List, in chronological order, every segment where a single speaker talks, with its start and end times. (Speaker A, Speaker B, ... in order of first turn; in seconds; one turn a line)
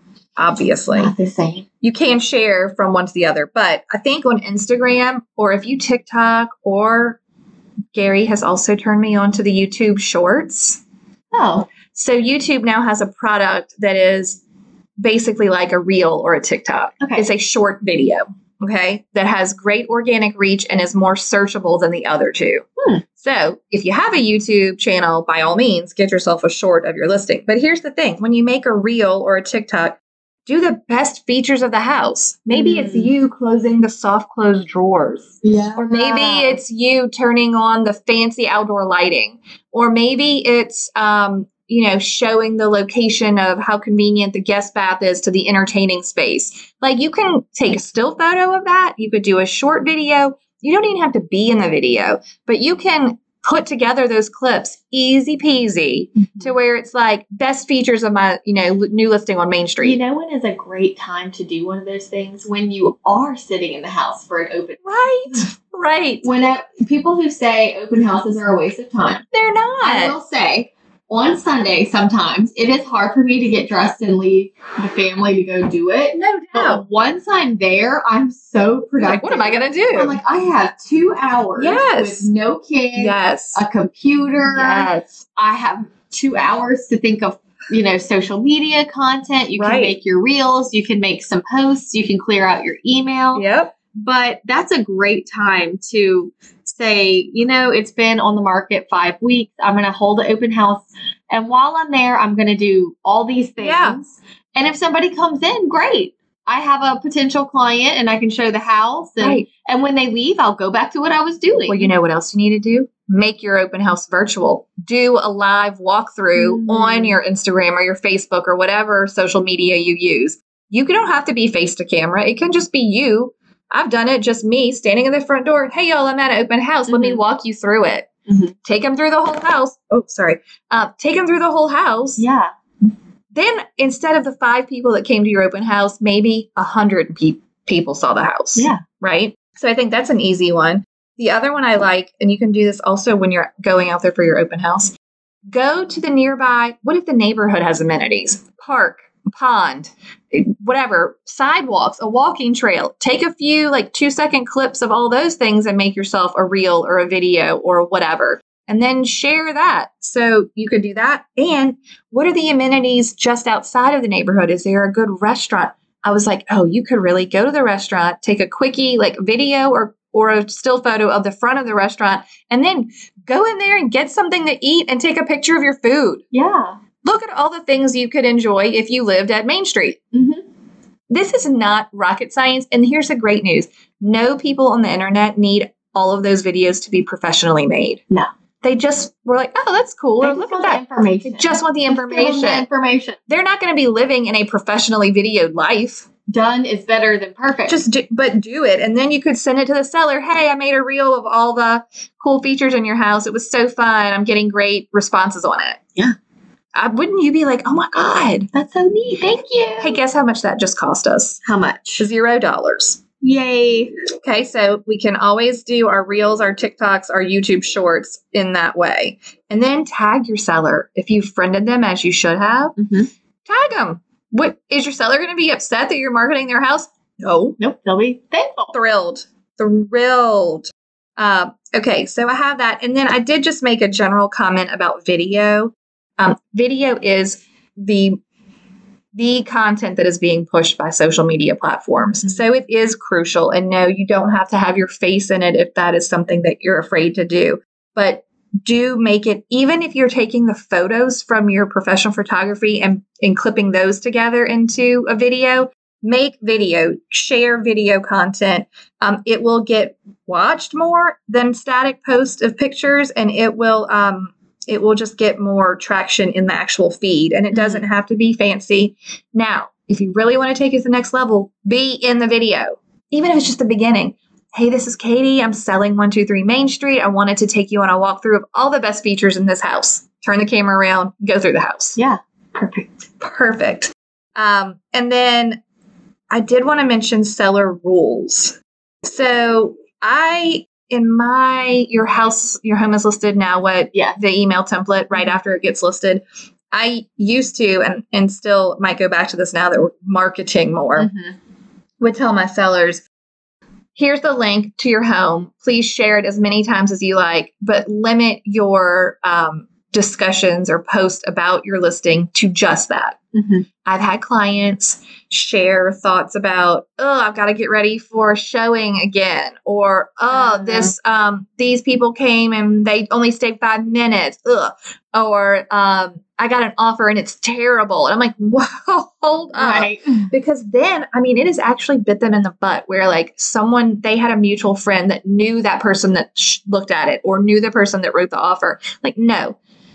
Speaker A: 0.4-1.1
Speaker B: 0.9-1.6
Speaker A: 1.8-7.2
Speaker A: 7.9-10.8
Speaker B: 11.3-11.7
Speaker A: 11.9-14.4
Speaker A: 15.0-22.6
Speaker B: 17.0-17.3
Speaker A: 23.2-60.0
Speaker B: 32.5-33.1
Speaker B: 35.4-36.6
Speaker B: 56.2-56.5
Speaker B: 59.8-65.5
Speaker A: 64.8-66.2
Speaker B: 66.2-69.2
Speaker A: 69.3-70.2
Speaker B: 69.8-111.9
Speaker A: 76.1-76.8
Speaker A: 79.0-80.2
Speaker A: 81.6-82.3
Speaker A: 82.9-83.6
Speaker A: 84.5-85.2
Speaker A: 89.5-89.9
Speaker A: 93.3-93.7
Speaker A: 103.6-104.0
Speaker A: 109.2-109.5
Speaker A: 111.7-128.1
Speaker B: 116.3-117.2
Speaker B: 126.9-127.2
Speaker B: 128.3-128.5
Speaker A: 128.6-132.2
Speaker B: 132.2-132.5
Speaker A: 133.3-144.9
Speaker B: 138.6-138.8
Speaker A: 145.5-176.2
Speaker B: 176.3-176.8
Speaker A: 177.0-180.0
Speaker B: 180.1-180.4
Speaker A: 181.1-188.0
Speaker A: 188.6-192.7
Speaker B: 190.2-193.2
Speaker A: 193.3-196.1
Speaker B: 196.3-197.8
Speaker A: 197.7-205.8
Speaker A: 206.7-208.5
Speaker B: 208.5-210.0
Speaker A: 209.8-211.4
Speaker B: 211.4-212.0
Speaker A: 212.0-213.0
Speaker B: 213.2-213.9
Speaker A: 214.2-222.7
Speaker B: 222.8-223.1
Speaker A: 223.4-227.6
Speaker B: 227.6-228.7
Speaker A: 228.7-238.2
Speaker A: 239.1-282.0
Speaker B: 267.5-267.8
Speaker B: 281.9-282.9
Speaker A: 283.2-285.6
Speaker A: 286.3-301.1
Speaker B: 293.9-294.2
Speaker B: 301.0-301.3
Speaker A: 302.0-303.0
Speaker A: 303.9-313.2
Speaker B: 313.3-313.6
Speaker A: 313.8-339.6
Speaker B: 320.3-320.9
Speaker B: 329.5-330.3